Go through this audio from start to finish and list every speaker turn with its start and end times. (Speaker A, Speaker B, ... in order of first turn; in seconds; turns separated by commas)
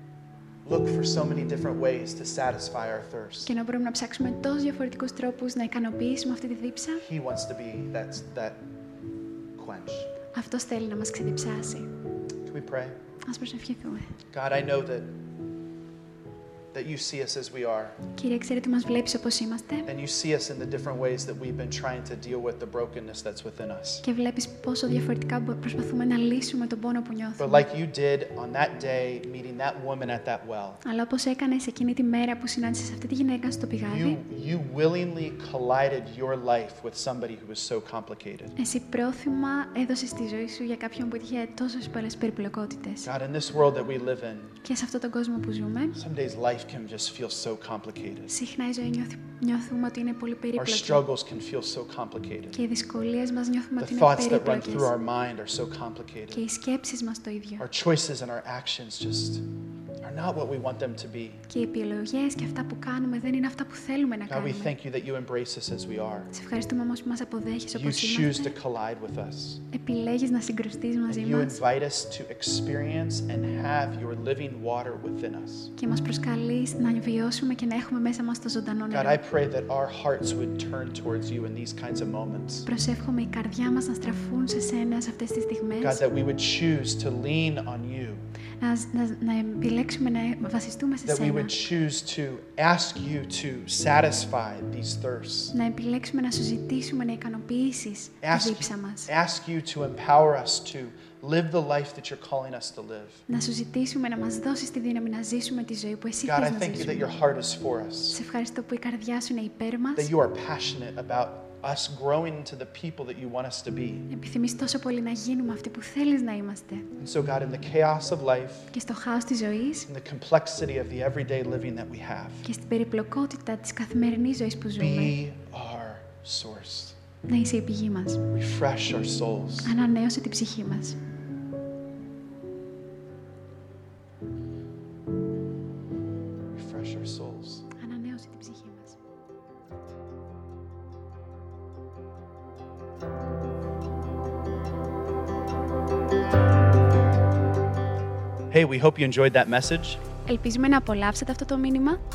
Speaker A: 0.6-3.5, Speaker B: 3.4-7.0, Speaker A: 7.0-8.6, Speaker A: 9.6-10.1, Speaker B: 10.3-11.9, Speaker A: 12.4-12.9, Speaker B: 13.2-14.2, Speaker A: 14.3-15.1, Speaker A: 16.7-18.0, Speaker B: 18.1-19.9, Speaker A: 19.9-24.0, Speaker B: 24.0-27.6, Speaker A: 27.4-30.8, Speaker B: 30.8-34.2, Speaker A: 33.9-38.5, Speaker B: 38.6-43.1, Speaker A: 43.0-44.6, Speaker B: 44.6-46.0, Speaker A: 46.0-48.3, Speaker B: 48.3-51.0, Speaker A: 50.6-52.6, Speaker B: 52.5-54.9, Speaker A: 53.8-56.4, Speaker B: 56.3-57.6, Speaker A: 57.6-59.5, Speaker A: 60.0-61.4, Speaker B: 61.5-64.7, Speaker A: 64.3-66.3, Speaker B: 66.3-68.5, Speaker A: 67.7-69.6, Speaker B: 69.7-71.6, Speaker A: 71.1-75.7, Speaker B: 75.8-79.2, Speaker A: 78.9-82.7, Speaker B: 82.7-86.0, Speaker A: 85.8-88.2, Speaker B: 88.6-91.5, Speaker A: 91.1-95.5, Speaker B: 95.5-99.1, Speaker A: 98.2-103.2, Speaker B: 103.3-107.1, Speaker A: 106.2-108.2, Speaker B: 108.1-110.1, Speaker A: 110.0-114.1, Speaker B: 114.1-116.9, Speaker A: 117.0-118.7, Speaker B: 118.7-119.9, Speaker A: 119.9-122.4, Speaker B: 122.4-125.1, Speaker A: 124.8-127.0, Speaker B: 127.2-128.2, Speaker A: 128.3-129.7, Speaker B: 129.6-131.0, Speaker A: 136.5-137.7, Speaker B: 137.8-138.9, Speaker A: 148.5-150.0, Speaker B: 150.2-152.0